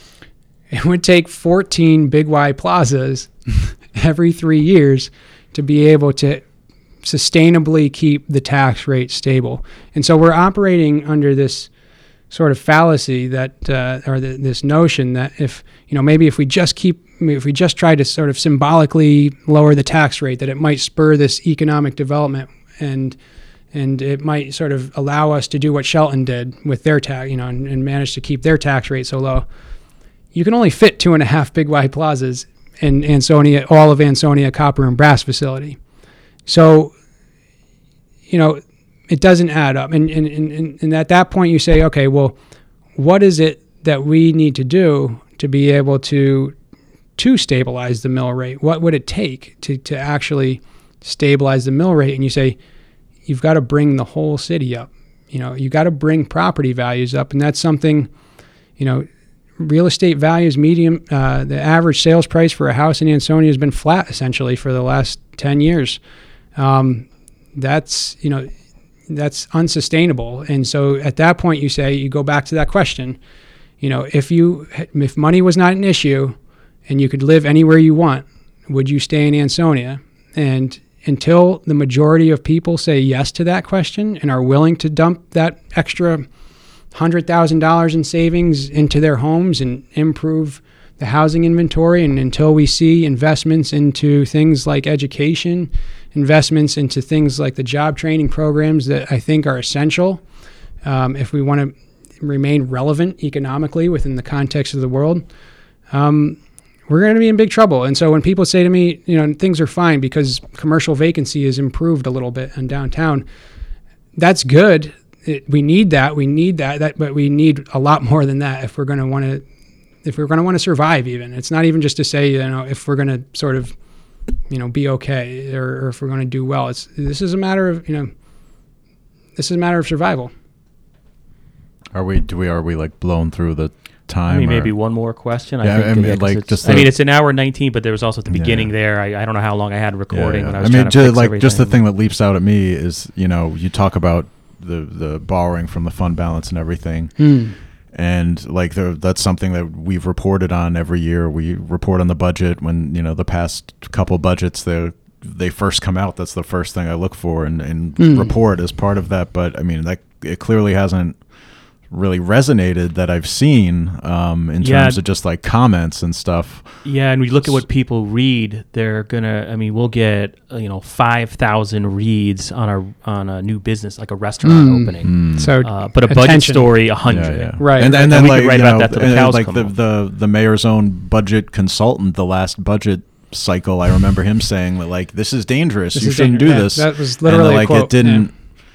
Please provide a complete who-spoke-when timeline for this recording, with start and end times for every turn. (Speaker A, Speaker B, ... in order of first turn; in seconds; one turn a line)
Speaker A: 0.7-6.5
Speaker A: 7.0-11.7
Speaker A: 12.3-23.2
Speaker A: 23.7-29.5
Speaker A: 30.3-35.8
Speaker A: 36.5-36.9
Speaker A: 38.3-42.4
Speaker A: 43.0-46.5
Speaker A: 47.2-52.6
Speaker A: 53.3-58.1
Speaker A: 58.8-59.1
Speaker A: 59.6-66.0
Speaker A: 66.6-68.5
Speaker A: 69.1-73.2
Speaker A: 73.8-76.4
Speaker A: 76.9-86.3
Speaker A: 86.9-100.2
Speaker A: 100.8-105.2
Speaker A: 105.9-113.2
Speaker A: 114.2-119.5
Speaker A: 120.0-123.8
Speaker A: 124.5-128.1
Speaker A: 129.4-130.3
Speaker B: 131.9-134.7
Speaker C: 134.3-141.7
Speaker B: 135.6-137.0
Speaker B: 138.3-138.7
Speaker B: 140.1-147.3
Speaker A: 147.2-147.6
Speaker B: 147.9-161.2
Speaker A: 158.0-158.3
Speaker B: 161.9-166.8
Speaker C: 164.6-165.0
Speaker C: 166.8-179.7
Speaker A: 174.4-176.7
Speaker B: 175.0-175.5
Speaker B: 177.1-188.3
Speaker A: 177.6-178.1
Speaker A: 185.9-188.3